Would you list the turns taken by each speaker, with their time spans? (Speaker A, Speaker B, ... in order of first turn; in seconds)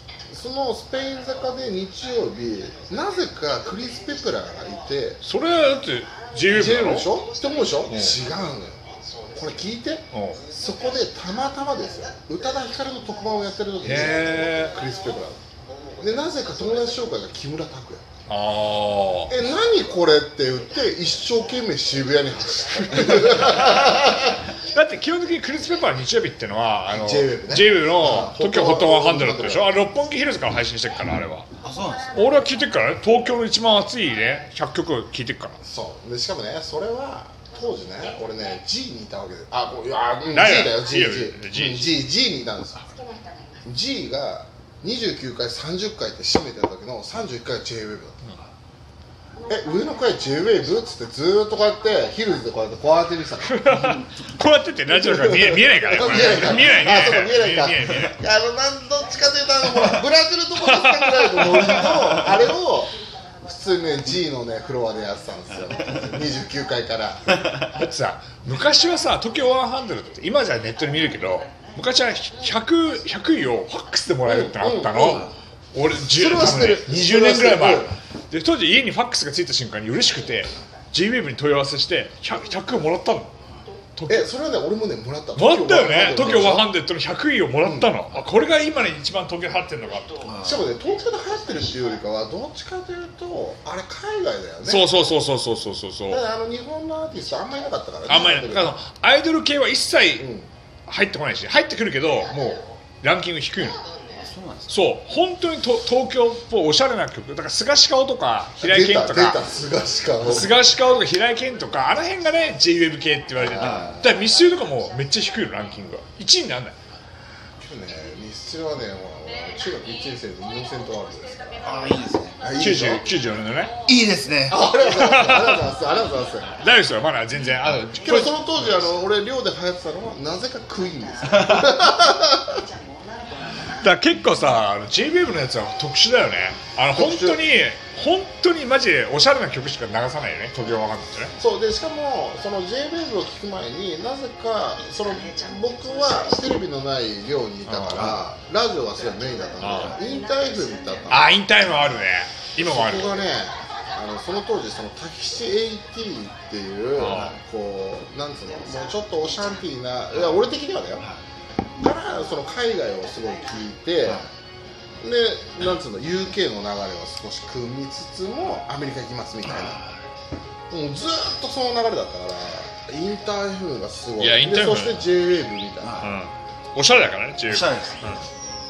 Speaker A: 0.3-5.2, 6.5-8.8, 9.3-15.4, 16.0-18.0, 19.3-24.4, 26.9-29.8, 35.6-42.9, 43.6-48.1, 49.5-53.6, 54.9-67.3, 74.2-75.3, 76.1-77.9, 84.1-86.7, 87.6-87.9, 90.4-94.9, 96.1-98.7, 100.2-100.5, 102.3-102.6, 108.6-110.5, 113.3-114.1, 117.6-121.7, 122.4-123.1, 124.5-126.5, 127.9-132.6, 136.9-137.4, 141.4-151.3, 152.6-161.1, 161.8-164.2, 165.0-169.8, 170.7-176.0
Speaker B: 5.2-7.1, 7.9-8.2, 10.1-10.4, 13.8-14.8, 18.3-19.3, 24.7-31.5, 32.1-35.6, 40.3-42.0, 53.5-58.2, 60.6-62.0, 67.7-83.3, 84.0-84.3, 85.3-90.1, 94.6-96.2, 98.1-100.3, 100.9-102.3, 103.0-103.8, 104.7-109.4, 110.2-116.8, 122.5-123.7, 124.7-125.7, 126.6-128.8, 133.7-141.3, 147.7-148.2, 149.6-150.0, 151.1-153.2, 156.9-157.3, 174.2-175.1, 176.0-178.2
Speaker C: 31.6-32.1, 90.3-90.7, 104.2-104.7, 113.5-114.0, 121.6-122.4, 123.8-124.6, 157.1-157.4, 160.1-160.4, 164.0-164.3, 169.4-170.0, 175.8-176.1, 177.5-178.0